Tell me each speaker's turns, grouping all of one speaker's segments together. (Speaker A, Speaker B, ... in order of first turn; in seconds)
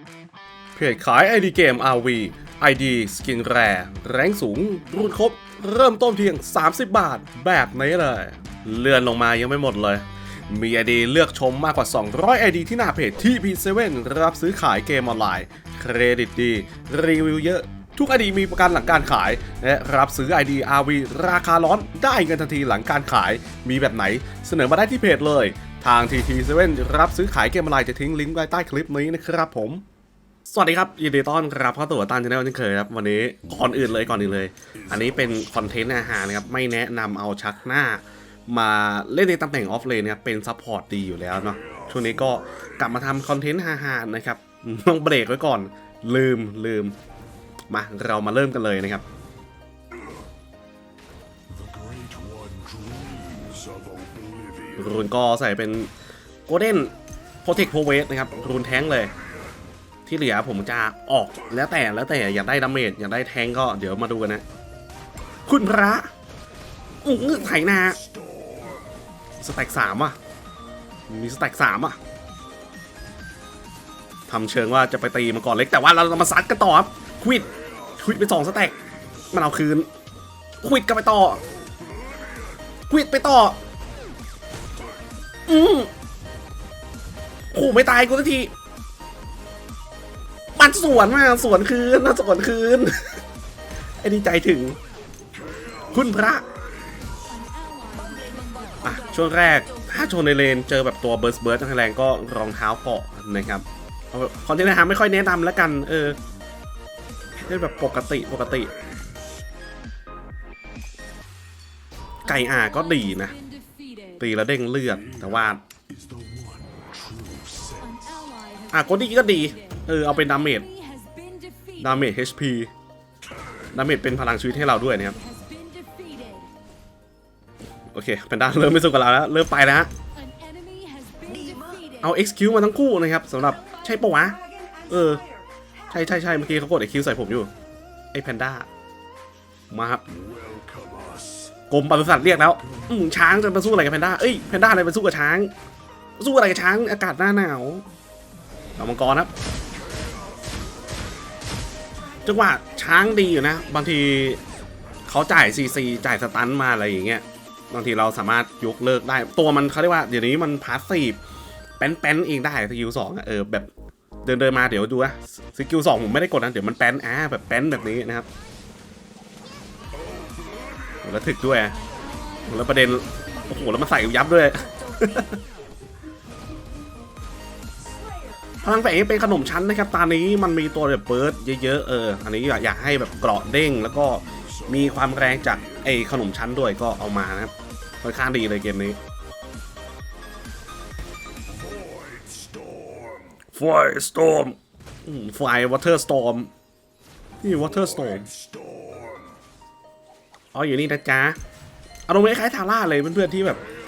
Speaker A: 0.7-29.8, 30.5-47.0, 47.7-49.0, 54.7-55.9, 56.5-56.9, 57.4-59.1, 60.0-64.4, 65.5-66.1, 67.0-68.0, 69.4-70.2, 71.1-72.0, 74.3-78.8, 79.3-79.9, 80.6-81.4, 82.9-83.6, 85.5-85.9, 87.5-88.5, 90.5-93.2, 94.0-94.8, 95.9-96.4, 98.8-106.2, 107.5-108.7, 112.2-113.4, 114.2-115.6, 118.7-120.7, 121.8-122.7, 123.7-125.2, 127.9-129.9, 131.8-135.2, 135.9-137.5, 138.1-138.7, 139.7-140.0, 141.7-145.5, 146.2-147.8, 148.8-149.3, 152.2-154.4, 155.1-161.2, 161.8-163.7, 164.2-168.3, 171.0-171.8, 172.4-175.4, 178.6-189.0, 193.5-196.5, 197.4-198.3, 200.5-201.4, 202.1-203.6
Speaker B: 51.7-54.5, 97.8-98.8, 116.0-118.3, 126.0-126.3, 130.8-131.6, 140.7-141.2